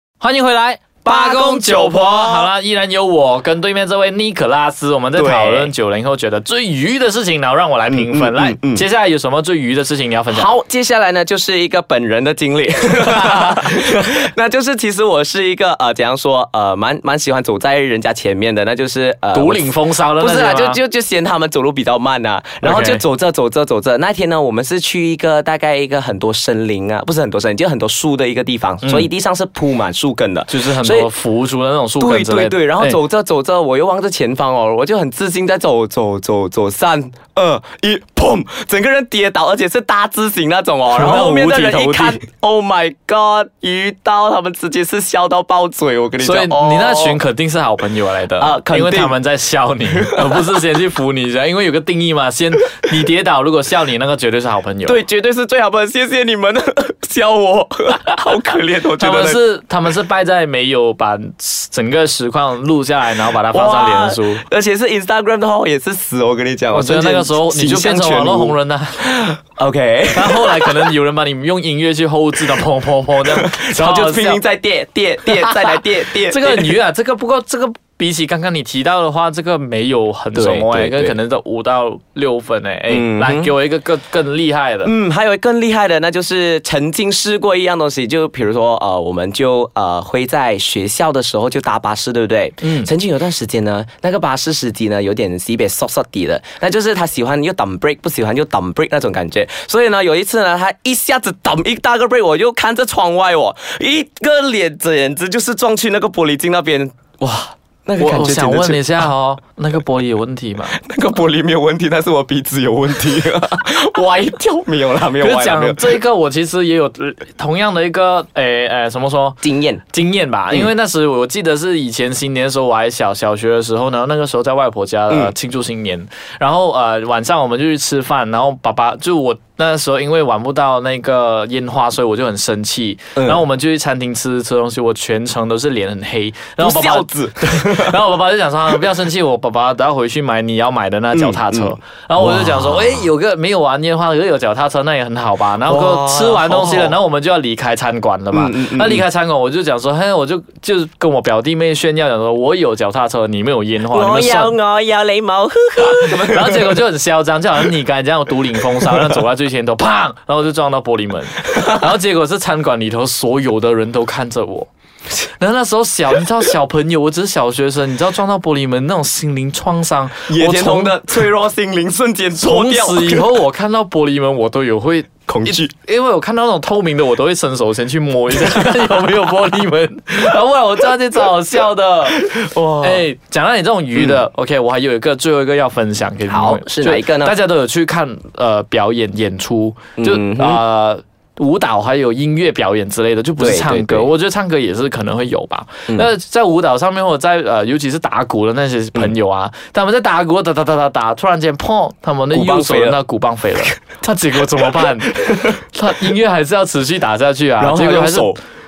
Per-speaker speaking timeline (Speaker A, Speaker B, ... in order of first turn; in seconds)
Speaker A: 0.2-10.5, 19.3-20.8, 22.6-23.0, 28.8-29.1, 30.5-33.0, 40.9-42.2, 46.2-55.0, 59.0-64.4, 66.7-69.1, 70.1-74.4, 75.3-84.9, 92.6-92.9, 108.0-110.8, 115.2-119.4, 119.9-154.6, 155.8-164.7, 165.4-171.2, 172.4-208.3
Speaker B: 1.1-2.5, 5.2-5.7, 7.9-8.8, 10.3-31.1, 32.0-47.2, 48.4-49.1, 49.9-50.5, 54.9-59.4, 63.5-70.9, 73.3-76.7, 80.3-81.2, 82.9-83.5, 84.8-109.1, 110.7-116.0, 119.4-119.8, 133.2-133.4, 136.6-138.0, 141.1-143.1, 145.7-147.0, 148.3-149.1, 153.9-156.8, 161.5-161.8, 170.3-173.3, 175.3-175.7, 182.2-183.1, 186.3-187.4, 190.0-190.6, 193.4-194.1, 202.3-203.0, 204.8-205.6, 207.6-208.4